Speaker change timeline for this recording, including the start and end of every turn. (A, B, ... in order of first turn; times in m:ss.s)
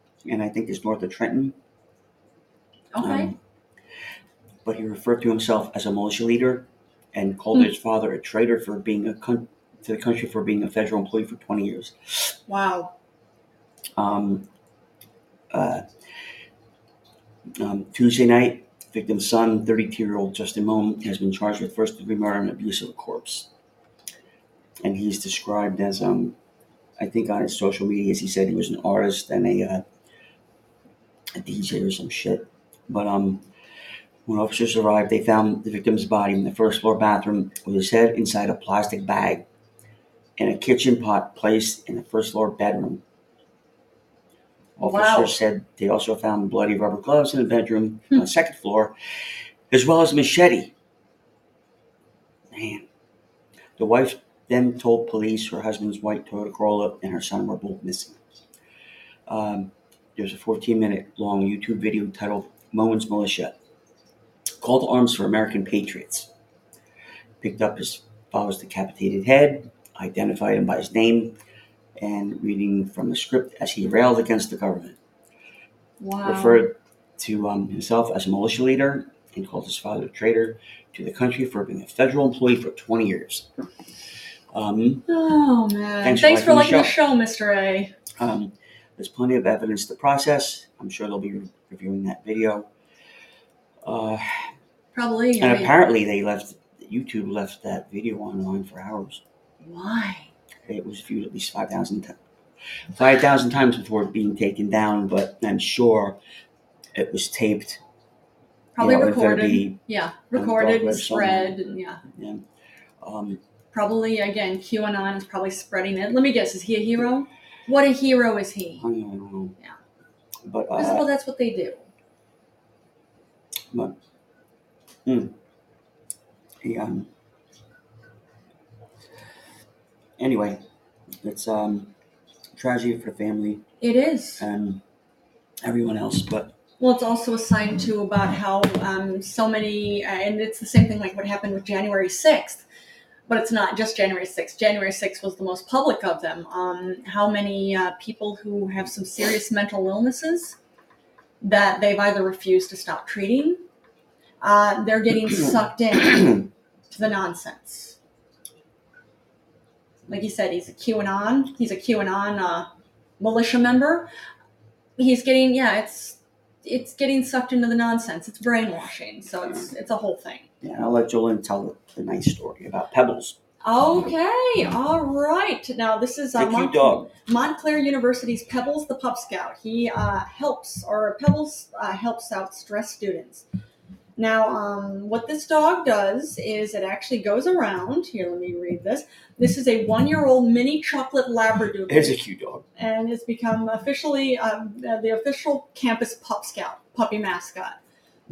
0:00.2-0:01.6 A
0:02.9-0:03.3 B
0:03.0-0:03.3 A
0:04.6-0:12.3 A
0:12.5-0:12.9 B
0:14.0-0:14.5 A
0:15.5-0:15.8 A
0:17.6-0:23.5 A
0:24.8-0:26.3 A
0:27.0-0:29.8 A
0:31.4-0:33.4 A
0:34.2-0:39.4 A
0:40.4-0:43.0 A
0:44.8-0:48.9 A
0:44.8-0:45.4 B
0:49.7-0:50.7 A
0:52.5-0:52.8 A
0:53.8-0:58.2 A
0:59.3-1:03.5 A
1:04.6-1:06.3 A
1:07.4-1:11.4 A
1:12.0-1:15.0 A
1:16.0-1:16.6 B
1:16.2-1:23.5 A
1:24.5-1:25.0 A
1:25.1-1:27.9 B
1:26.0-1:26.9 A
1:28.2-1:32.7 A
1:33.8-1:34.5 A
1:34.9-1:35.7 B
1:35.4-1:39.2 A
1:39.6-1:40.3 B
1:40.6-1:42.2 A
1:42.9-1:46.2 A
1:46.9-1:47.8 A
1:48.8-1:52.0 B
1:48.8-1:49.8 A
1:50.3-1:51.6 A
1:52.1-1:52.4 A
1:53.0-1:53.4 A
1:53.7-1:58.8 B
1:58.8-1:59.6 A
2:00.4-2:01.1 A
2:00.8-2:01.8 B
2:05.0-2:05.4 A
2:06.6-2:07.1 A
2:10.2-2:10.6 A
2:11.2-2:11.9 A
2:12.6-2:13.6 A
2:13.8-2:14.4 B
2:14.4-2:14.8 A
2:15.6-2:16.5 A
2:16.8-2:22.6 B
2:23.3-2:30.6 B
2:31.4-2:33.6 B
2:34.4-2:38.0 B
2:40.1-2:42.7 B
2:43.2-2:44.1 B
2:45.0-2:50.5 B
2:50.6-2:53.4 A
2:53.6-3:03.4 B
2:56.3-2:57.1 A
3:04.2-3:12.2 B
3:11.9-3:12.6 A
3:12.8-3:17.8 B